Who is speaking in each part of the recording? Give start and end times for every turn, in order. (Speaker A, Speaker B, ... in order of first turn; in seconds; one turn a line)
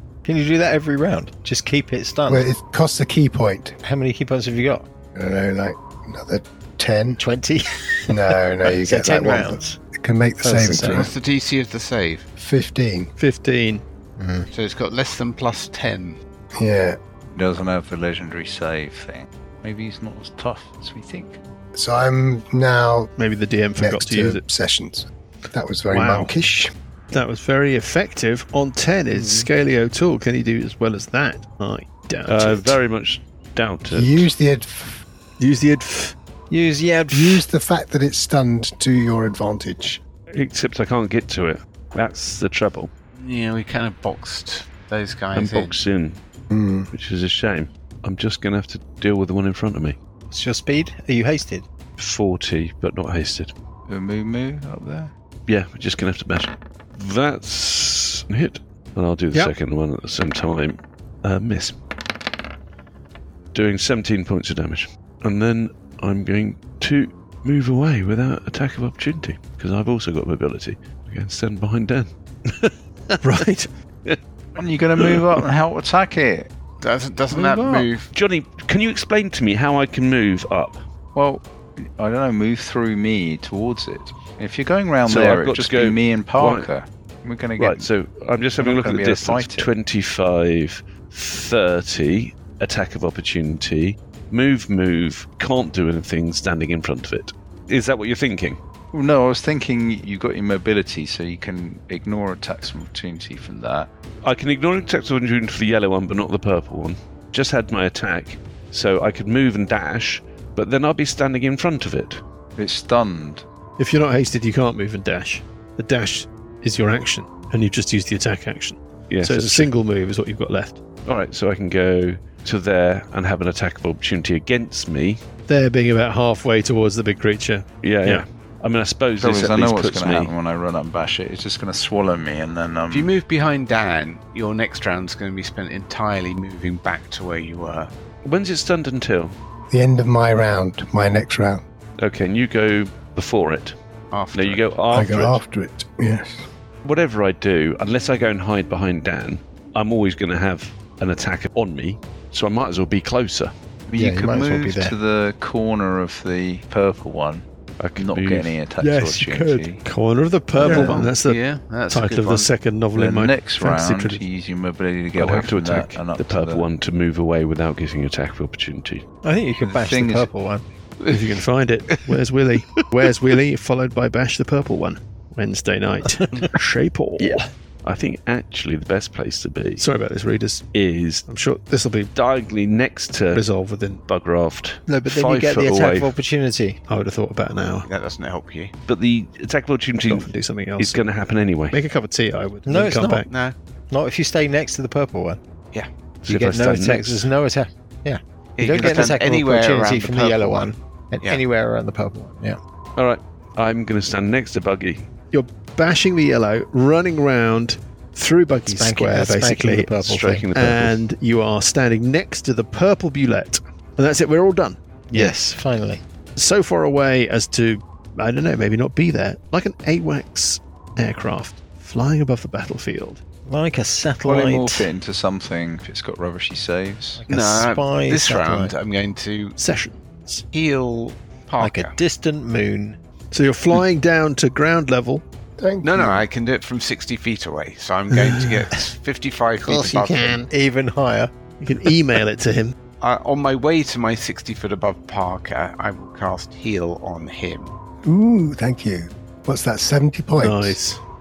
Speaker A: 0.2-2.5
Speaker B: 2.3-3.8
Speaker A: 3.8-4.8
Speaker B: 5.1-7.2
Speaker A: 7.2-9.8
Speaker B: 8.1-11.1
Speaker A: 10.4-11.1
Speaker C: 10.9-12.3
Speaker B: 12.4-13.1
Speaker D: 13.2-13.8
Speaker A: 14.2-14.5
Speaker C: 14.5-16.2
Speaker B: 16.6-17.0
Speaker E: 17.3-21.4
Speaker B: 21.7-23.1
Speaker D: 23.2-24.4
Speaker B: 23.8-26.7
Speaker D: 25.9-26.3
Speaker D: 27.1-32.8
Speaker F: 32.3-34.3
Speaker B: 33.9-35.0
Speaker D: 35.4-36.1
Speaker A: 36.5-37.4
Speaker B: 37.1-40.0
Speaker F: 40.3-42.9
Speaker C: 43.2-45.8
Speaker F: 45.3-46.2
Speaker B: 46.5-46.9
Speaker F: 46.9-50.0
Speaker A: 50.3-51.6
Speaker F: 52.0-53.5
Speaker E: 53.9-55.1
Speaker F: 55.5-61.8
Speaker F: 63.5-73.1
Speaker D: 73.2-73.7
Speaker E: 74.5-76.5
Speaker C: 76.8-78.1
Speaker F: 77.3-80.8
Speaker E: 81.1-87.9
Speaker F: 85.0-86.7
Speaker F: 87.6-98.6
Speaker E: 88.6-89.7
Speaker E: 98.9-103.9
Speaker F: 104.2-112.2
Speaker E: 112.6-113.4
Speaker D: 113.8-120.8
Speaker F: 119.1-119.7
Speaker F: 121.0-125.2
Speaker D: 125.5-128.2
Speaker F: 127.8-130.3
Speaker E: 129.2-133.1
Speaker C: 132.9-137.9
Speaker F: 138.2-139.3
Speaker B: 139.7-141.6
Speaker F: 142.0-143.8
Speaker C: 144.1-144.8
Speaker F: 144.3-145.4
Speaker B: 144.9-146.4
Speaker F: 146.8-153.5
Speaker E: 153.9-157.4
Speaker A: 153.9-154.9
Speaker F: 157.8-158.6
Speaker E: 158.0-159.8
Speaker D: 158.8-164.2
Speaker C: 160.6-162.5
Speaker A: 160.6-161.1
Speaker E: 162.9-166.7
Speaker F: 165.2-169.0
Speaker A: 169.2-170.6
Speaker E: 169.6-170.3
Speaker C: 171.0-172.9
Speaker D: 171.1-177.4
Speaker F: 177.8-179.8
Speaker D: 179.8-180.6
Speaker F: 180.7-181.2
Speaker D: 181.3-182.1
Speaker F: 182.1-183.4
Speaker D: 183.3-184.0
Speaker F: 184.1-186.1
Speaker A: 184.9-186.8
Speaker D: 186.9-187.9
Speaker C: 187.8-188.7
Speaker F: 188.9-191.8
Speaker D: 190.0-191.1
Speaker D: 191.7-193.3
Speaker A: 192.7-193.2
Speaker C: 193.3-193.6
Speaker A: 193.9-195.4
Speaker A: 196.2-202.6
Speaker F: 196.2-197.3
Speaker C: 198.6-200.7
Speaker E: 198.8-199.1
Speaker F: 202.9-205.1
Speaker D: 205.3-215.4
Speaker A: 208.7-210.5
Speaker F: 210.1-210.9
Speaker A: 215.1-216.0
Speaker D: 216.3-223.2
Speaker A: 223.5-224.9
Speaker E: 224.2-227.2
Speaker A: 227.2-228.7
Speaker C: 227.3-229.6
Speaker D: 229.6-230.4
Speaker C: 230.5-231.9
Speaker A: 231.6-233.0
Speaker D: 233.3-235.2
Speaker B: 235.6-236.2
Speaker C: 235.8-240.5
Speaker D: 238.1-238.8
Speaker D: 239.6-240.4
Speaker A: 239.7-241.3
Speaker D: 241.6-242.7
Speaker C: 243.0-247.7
Speaker B: 248.0-250.8
Speaker D: 250.4-251.0